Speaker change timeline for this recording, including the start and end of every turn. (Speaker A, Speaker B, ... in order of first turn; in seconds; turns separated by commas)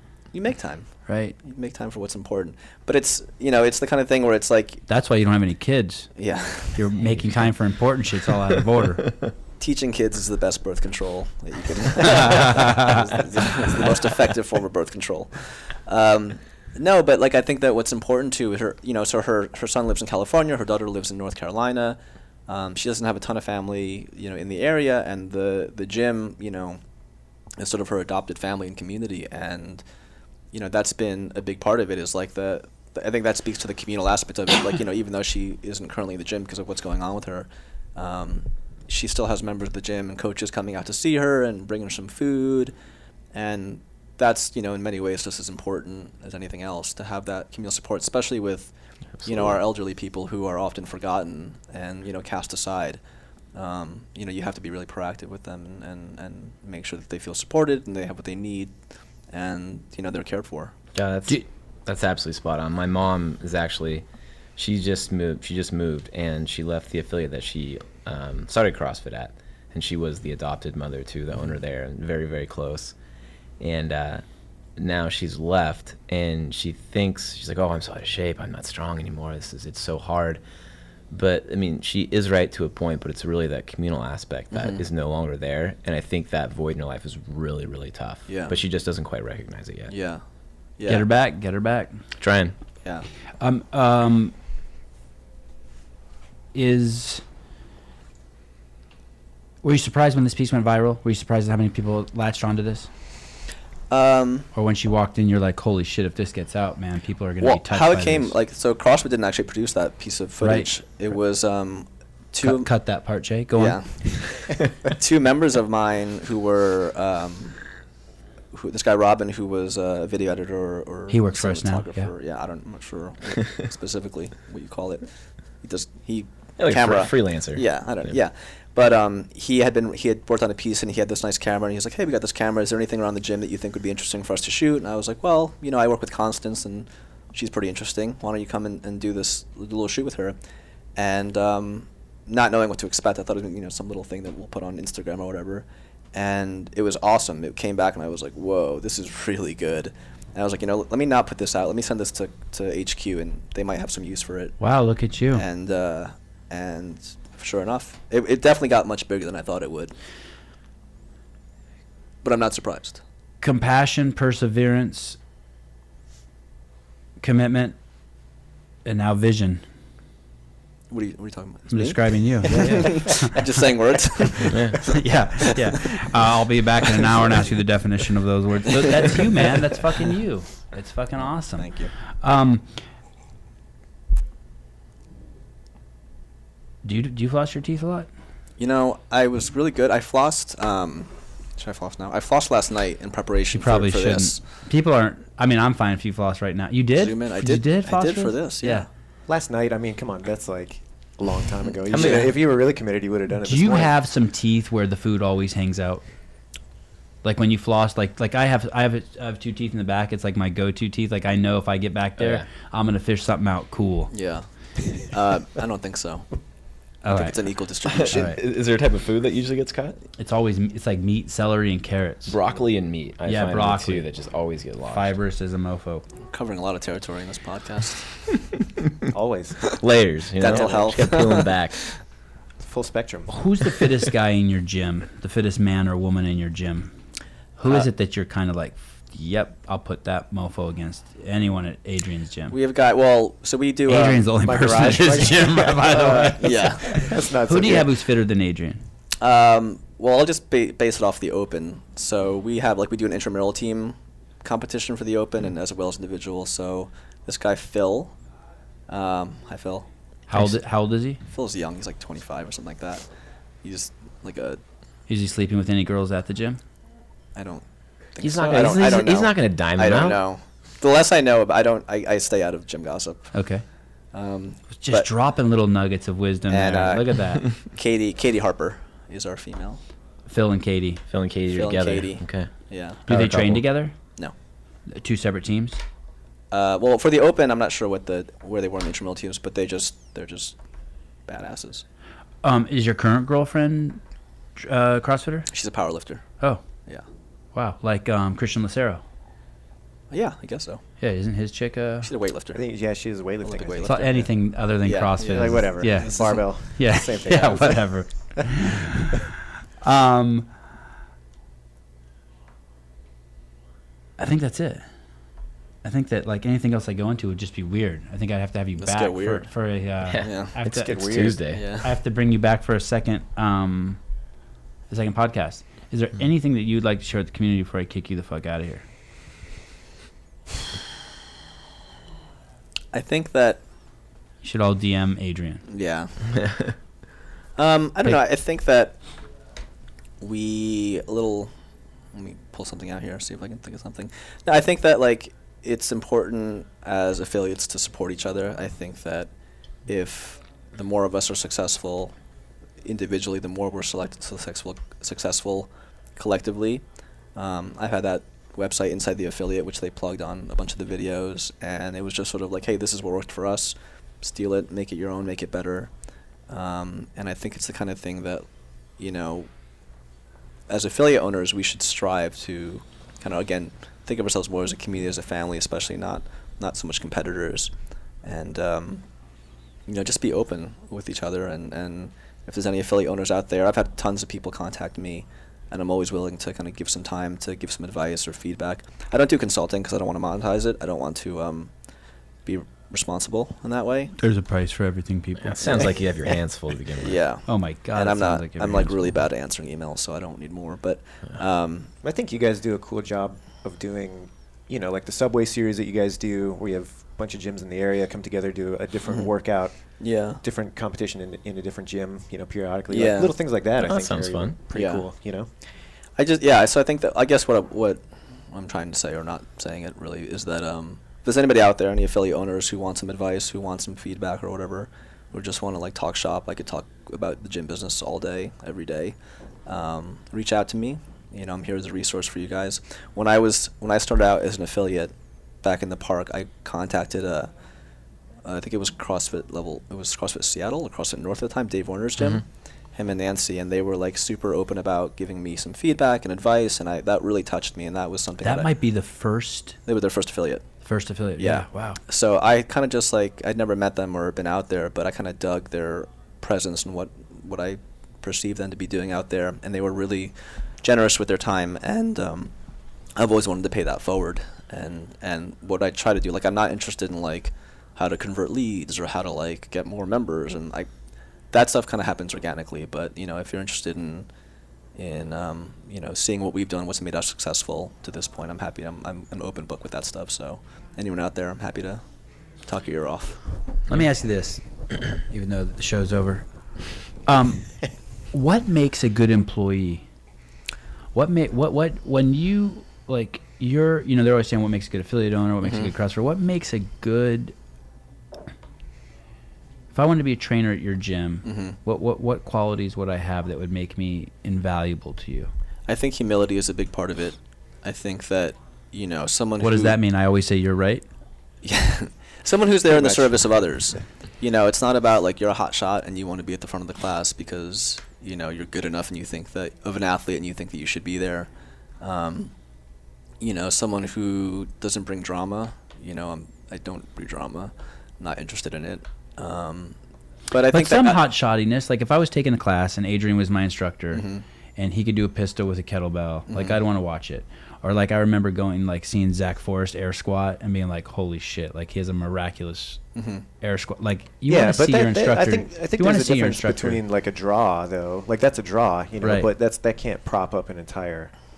Speaker A: 0.3-4.8, Speaker B: 1.1-1.4, Speaker B: 4.9-6.1, Speaker A: 6.2-6.9, Speaker B: 6.7-9.0, Speaker C: 9.0-9.3, Speaker A: 9.6-26.8, Speaker B: 12.0-13.0, Speaker A: 27.6-29.8, Speaker A: 30.5-42.7, Speaker A: 43.3-48.7, Speaker C: 49.2-49.5, Speaker A: 49.2-53.0, Speaker A: 53.5-58.7, Speaker A: 59.3-60.7, Speaker C: 60.9-64.0, Speaker C: 64.5-72.9, Speaker C: 73.6-74.2, Speaker C: 74.8-80.4, Speaker C: 81.1-89.9, Speaker A: 84.5-84.8, Speaker A: 88.3-88.6, Speaker A: 89.9-90.2, Speaker A: 90.8-91.0, Speaker B: 90.9-92.0, Speaker C: 92.2-92.5, Speaker B: 93.4-94.3, Speaker B: 96.5-97.2, Speaker B: 99.6-102.9, Speaker A: 103.9-104.5, Speaker B: 104.5-108.3, Speaker A: 107.4-112.7, Speaker B: 110.4-110.7, Speaker B: 112.4-113.8, Speaker A: 113.5-117.6, Speaker A: 118.5-125.1, Speaker B: 121.1-122.1, Speaker A: 125.6-140.3, Speaker C: 126.6-128.1, Speaker A: 140.9-154.6, Speaker B: 154.6-155.4, Speaker A: 155.3-159.9, Speaker A: 162.2-163.0, Speaker B: 163.4-165.2, Speaker B: 167.2-167.8, Speaker B: 168.8-169.6, Speaker A: 170.9-174.9, Speaker B: 171.7-173.4, Speaker D: 172.5-172.9, Speaker C: 174.5-174.8, Speaker B: 174.8-181.7, Speaker A: 175.4-175.9, Speaker A: 181.6-181.9, Speaker B: 182.2-182.7, Speaker B: 186.8-188.1, Speaker A: 188.6-194.4, Speaker B: 193.5-198.8, Speaker A: 196.9-198.8, Speaker D: 199.3-203.9, Speaker A: 201.9-202.3, Speaker C: 201.9-202.3, Speaker B: 203.4-206.0, Speaker B: 207.2-214.1, Speaker C: 212.2-212.4, Speaker A: 214.1-214.4, Speaker A: 215.0-216.2, Speaker B: 217.0-217.4, Speaker A: 217.1-218.3, Speaker C: 217.8-220.0, Speaker B: 218.1-218.4, Speaker B: 220.2-222.3, Speaker C: 222.3-225.1, Speaker B: 223.2-224.1, Speaker B: 224.9-226.0, Speaker A: 226.3-228.1, Speaker D: 229.1-229.6, Speaker C: 229.7-231.8, Speaker A: 230.4-231.8, Speaker D: 232.6-233.3, Speaker B: 233.3-236.9, Speaker B: 237.6-242.6, Speaker A: 242.5-244.3, Speaker B: 243.9-248.8, Speaker D: 244.4-247.9, Speaker A: 246.4-247.0, Speaker A: 249.2-258.1, Speaker A: 258.9-259.9, Speaker B: 260.3-261.2, Speaker A: 261.3-263.1, Speaker A: 263.6-264.6, Speaker B: 265.1-266.6, Speaker A: 267.4-267.6, Speaker A: 268.1-273.3, Speaker C: 268.2-270.2, Speaker B: 273.3-273.6, Speaker A: 274.1-275.1, Speaker B: 274.8-277.4, Speaker A: 276.5-279.8, Speaker B: 280.3-281.0, Speaker C: 281.1-282.5, Speaker A: 281.5-283.0, Speaker C: 283.1-283.6, Speaker B: 283.1-283.9, Speaker B: 284.9-285.8, Speaker A: 286.5-290.6, Speaker A: 291.3-291.8, Speaker B: 292.4-294.0, Speaker B: 294.6-295.5, Speaker A: 295.5-296.2, Speaker B: 297.5-299.0, Speaker A: 300.1-300.8, Speaker B: 301.0-302.1, Speaker A: 302.0-302.6, Speaker D: 302.5-304.1, Speaker A: 303.4-304.3, Speaker B: 303.8-310.5, Speaker A: 304.8-306.4, Speaker D: 305.2-307.9, Speaker B: 314.2-314.9, Speaker B: 315.8-324.0, Speaker A: 318.8-319.5, Speaker C: 320.0-321.6, Speaker A: 320.2-320.5, Speaker D: 320.6-321.4, Speaker A: 321.5-321.9, Speaker B: 324.9-328.8, Speaker A: 332.9-333.6, Speaker B: 334.4-335.6, Speaker A: 335.7-336.2, Speaker C: 336.4-336.7, Speaker A: 337.6-339.0, Speaker A: 340.2-341.5, Speaker A: 342.1-349.3, Speaker A: 349.9-352.1, Speaker A: 352.8-356.8, Speaker A: 357.4-365.9, Speaker A: 366.5-368.4, Speaker A: 369.0-369.5, Speaker A: 370.7-377.7, Speaker A: 378.2-379.0, Speaker A: 379.9-391.7, Speaker A: 392.4-394.1, Speaker B: 394.2-395.9, Speaker C: 395.4-397.2, Speaker A: 397.0-401.9, Speaker B: 397.5-399.0, Speaker D: 402.0-409.8, Speaker A: 410.0-410.4, Speaker D: 410.4-415.5, Speaker A: 412.9-413.3, Speaker C: 413.8-414.6, Speaker A: 414.7-415.0, Speaker A: 416.2-429.1, Speaker A: 429.6-435.1, Speaker A: 435.6-437.5, Speaker A: 438.4-442.4, Speaker A: 442.9-448.7, Speaker B: 448.4-449.8, Speaker A: 449.9-450.6, Speaker B: 450.8-452.0, Speaker A: 451.4-462.5, Speaker A: 463.1-470.9, Speaker A: 471.5-474.3, Speaker A: 474.9-482.0, Speaker A: 482.6-483.4, Speaker B: 483.9-484.6, Speaker B: 485.1-486.4, Speaker B: 487.2-487.7, Speaker B: 488.3-490.1, Speaker B: 491.1-497.5, Speaker A: 495.6-495.9, Speaker B: 499.9-505.5, Speaker A: 501.4-501.8, Speaker A: 505.9-509.9, Speaker B: 509.6-511.1, Speaker A: 511.6-521.5, Speaker D: 512.9-513.4, Speaker A: 522.0-522.5, Speaker A: 523.4-530.0, Speaker A: 530.5-531.2, Speaker B: 530.7-534.2, Speaker A: 534.1-534.4, Speaker B: 534.8-543.0, Speaker A: 536.5-536.8, Speaker A: 543.1-543.4, Speaker B: 543.6-547.0, Speaker D: 544.5-551.3, Speaker B: 549.2-549.5